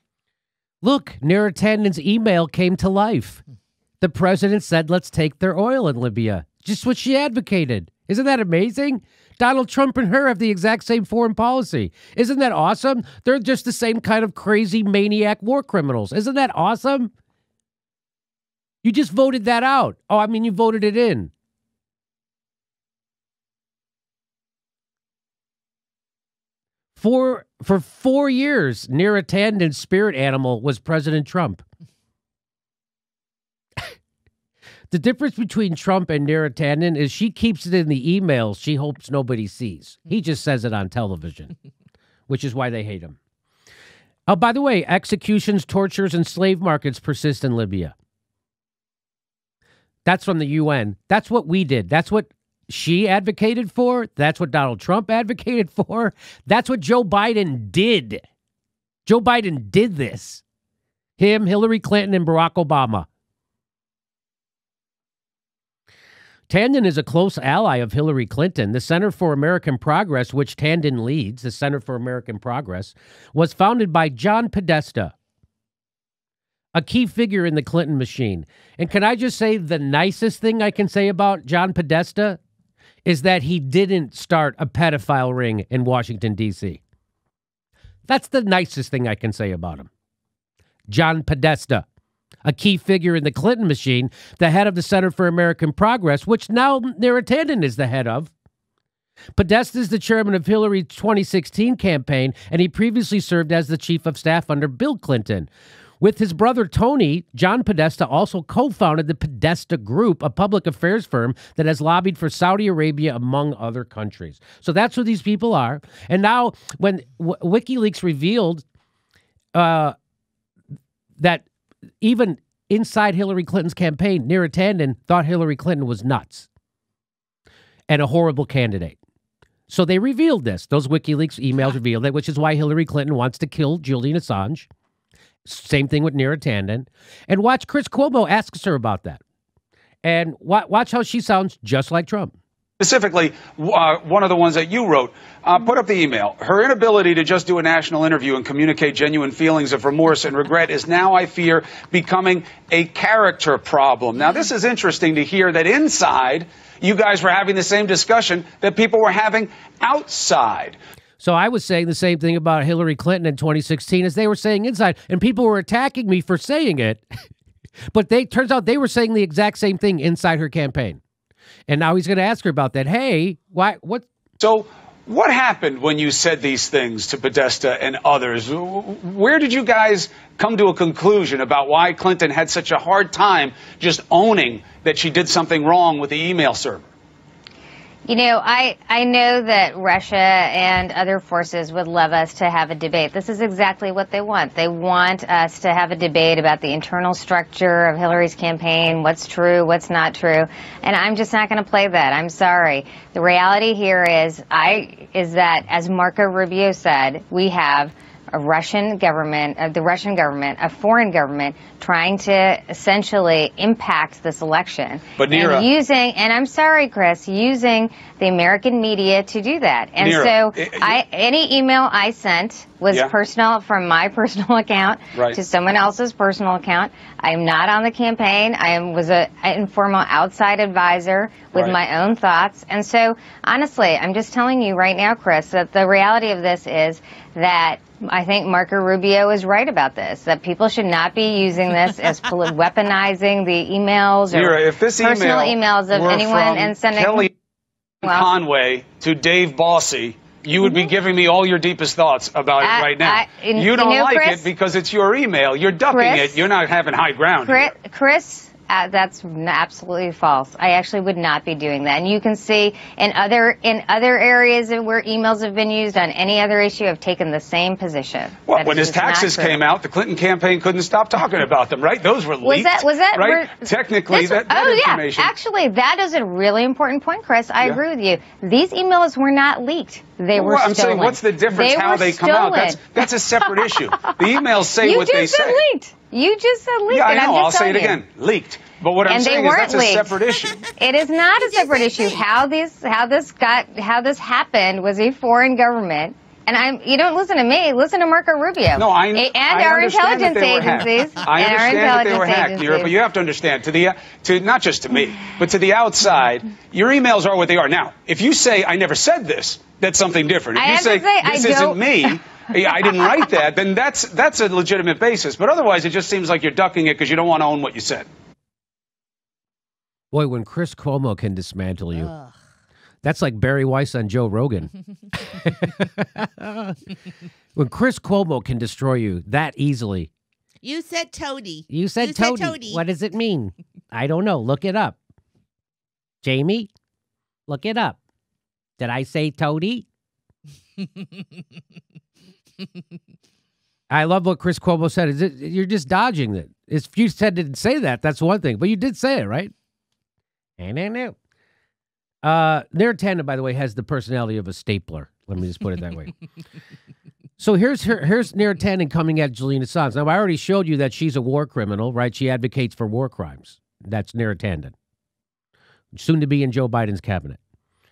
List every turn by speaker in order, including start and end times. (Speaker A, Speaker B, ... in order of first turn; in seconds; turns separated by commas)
Speaker A: 0.8-3.4, Speaker A: 4.0-17.1, Speaker A: 18.8-21.3, Speaker A: 27.0-31.6, Speaker A: 34.9-41.5, Speaker A: 42.3-43.2, Speaker A: 44.3-47.9, Speaker A: 50.0-58.2, Speaker A: 59.0-60.4, Speaker A: 61.2-63.1, Speaker A: 66.5-75.1, Speaker A: 76.7-82.4, Speaker A: 83.0-86.8, Speaker A: 88.1-89.9, Speaker A: 90.9-91.8, Speaker A: 92.4-98.3, Speaker A: 99.4-105.5, Speaker A: 106.0-118.6, Speaker A: 119.5-119.9, Speaker A: 121.2-121.4, Speaker A: 122.0-126.5, Speaker A: 127.9-129.0, Speaker A: 129.7-134.7, Speaker A: 135.4-139.2, Speaker A: 140.0-142.3, Speaker B: 142.8-160.8, Speaker A: 161.2-167.0, Speaker A: 167.9-171.0, Speaker A: 171.7-174.1, Speaker B: 174.4-186.8, Speaker C: 188.1-247.3, Speaker B: 215.2-215.7, Speaker B: 220.0-221.0, Speaker B: 244.3-247.3, Speaker C: 248.0-248.3, Speaker B: 248.0-257.7, Speaker C: 252.6-254.5, Speaker C: 255.9-256.4, Speaker C: 257.4-269.6, Speaker B: 268.5-275.3, Speaker C: 272.4-273.6, Speaker C: 274.1-283.6, Speaker B: 280.3-285.6, Speaker C: 284.8-288.0, Speaker B: 286.9-290.6, Speaker C: 289.0-290.2, Speaker C: 290.8-302.9, Speaker B: 298.7-318.1, Speaker C: 310.5-312.1, Speaker A: 320.1-322.1, Speaker A: 323.0-324.7, Speaker A: 325.2-326.7, Speaker A: 327.6-330.1, Speaker D: 330.6-332.8, Speaker A: 331.7-335.0, Speaker A: 336.2-336.7, Speaker A: 337.5-338.0, Speaker A: 338.8-339.9, Speaker A: 343.9-349.5, Speaker A: 350.6-351.1, Speaker A: 352.2-356.1, Speaker A: 357.4-364.7, Speaker A: 365.9-367.4